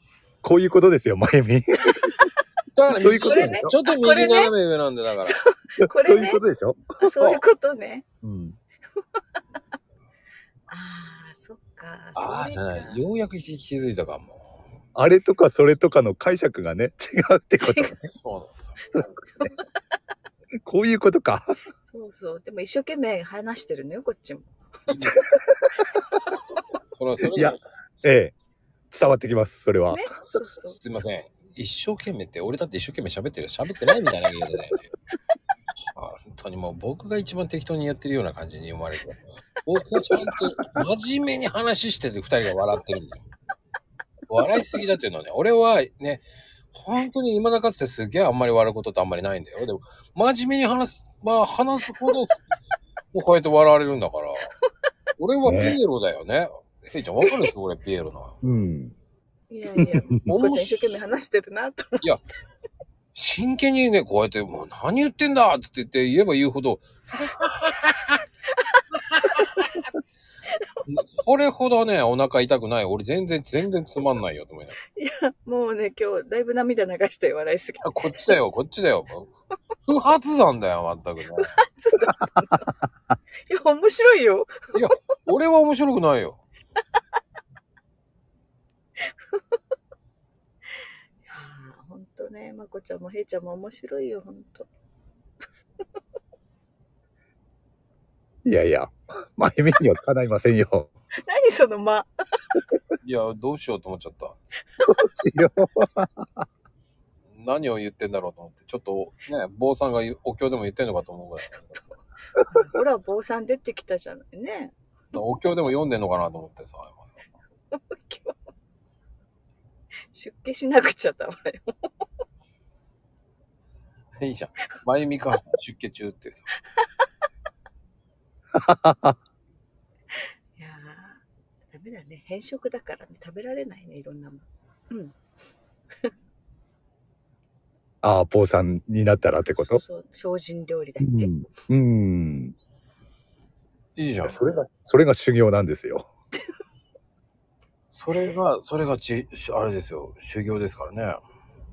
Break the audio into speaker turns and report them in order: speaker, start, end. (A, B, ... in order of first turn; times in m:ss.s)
0:00.4-0:02.2 A
0:02.7-0:05.4 B
0:02.9-0:03.7 A
0:03.1-0:04.5 C
0:05.2-0:06.4 C
0:05.8-0:07.0 A
0:07.0-0:08.0 C
0:08.2-0:08.6 A
0:10.7-0:13.0 C
0:12.2-0:14.5 B
0:14.9-0:18.1 A
0:17.6-0:18.0 C
0:18.1-0:18.8 B
0:18.9-0:19.5 A
0:20.6-0:21.6 A
0:21.8-0:25.6 C
0:24.9-0:25.2 B
0:26.9-0:28.1 B
0:27.2-0:28.3 A
0:28.9-0:30.0 A
0:29.9-0:30.8 C
0:30.7-0:34.9 B
0:35.9-0:43.2 B
0:40.3-0:40.8 C
0:44.3-0:52.4 B
0:53.1-0:54.5 B
0:55.2-0:58.3 B
0:55.4-0:55.8 A
0:57.2-0:57.5 C
0:58.4-0:58.9 A
0:59.5-1:02.0 C
0:59.8-1:00.0 A
1:00.2-1:01.0 B
1:03.1-1:08.1 B
1:08.5-1:09.8 C
1:09.1-1:09.5 B
1:10.9-1:14.8 B
1:14.9-1:18.4 C
1:17.8-1:19.3 B
1:19.8-1:21.5 B
1:21.5-1:22.7 C
1:23.5-1:24.6 C
1:24.7-1:26.4 B
1:29.0-1:29.4 C
1:31.2-1:34.7 C
1:38.4-1:40.9 A
1:41.2-1:42.1 C
1:43.0-1:44.4 B
1:44.8-1:46.4 A
1:47.4-1:51.8 B
1:52.4-1:54.7 C
1:55.1-1:57.2 B
1:57.7-1:58.4 C
2:00.1-2:01.9 C
2:04.2-2:06.5 B
2:08.5-2:09.2 A
2:10.6-2:11.2 C
2:11.7-2:15.1 C
2:18.0-2:19.8 A
2:19.6-2:21.4 C
2:21.0-2:22.5 A
2:24.0-2:24.4 B
2:24.2-2:26.0 A
2:27.9-2:31.1 B